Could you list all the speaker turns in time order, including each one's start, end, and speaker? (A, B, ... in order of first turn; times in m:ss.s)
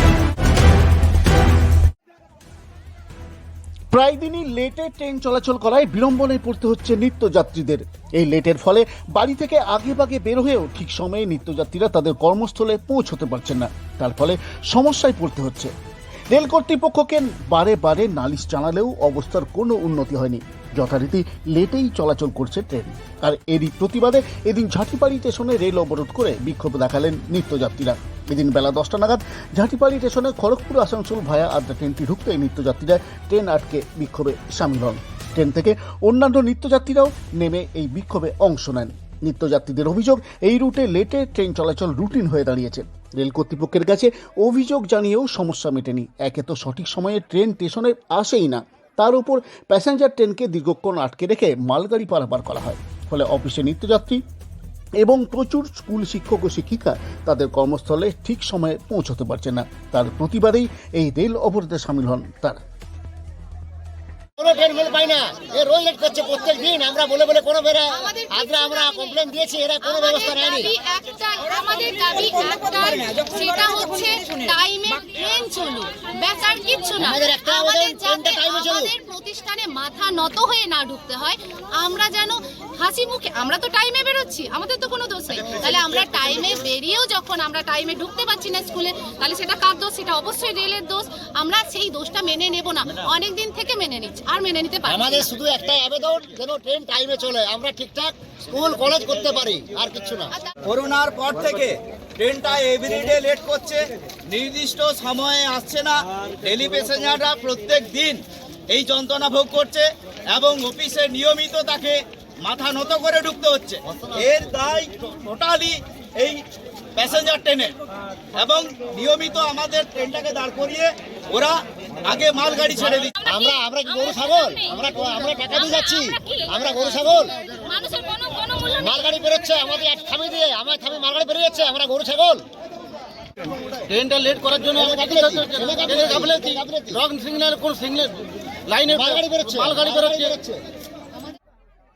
0:03.9-0:15.7 A
0:16.3-0:54.2 A
0:55.0-1:02.6 A
1:04.4-1:10.7 B
1:07.9-1:09.2 C
1:09.8-1:35.4 C
1:17.0-1:18.9 B
1:34.9-1:40.3 B
1:40.6-1:56.4 D
1:53.9-1:54.2 B
1:57.0-1:57.7 D
1:58.4-2:03.3 D
2:03.2-2:07.4 B
2:07.5-2:08.8 C
2:08.6-2:12.5 B
2:13.8-2:20.4 E
2:14.8-2:17.0 B
2:18.9-2:20.6 B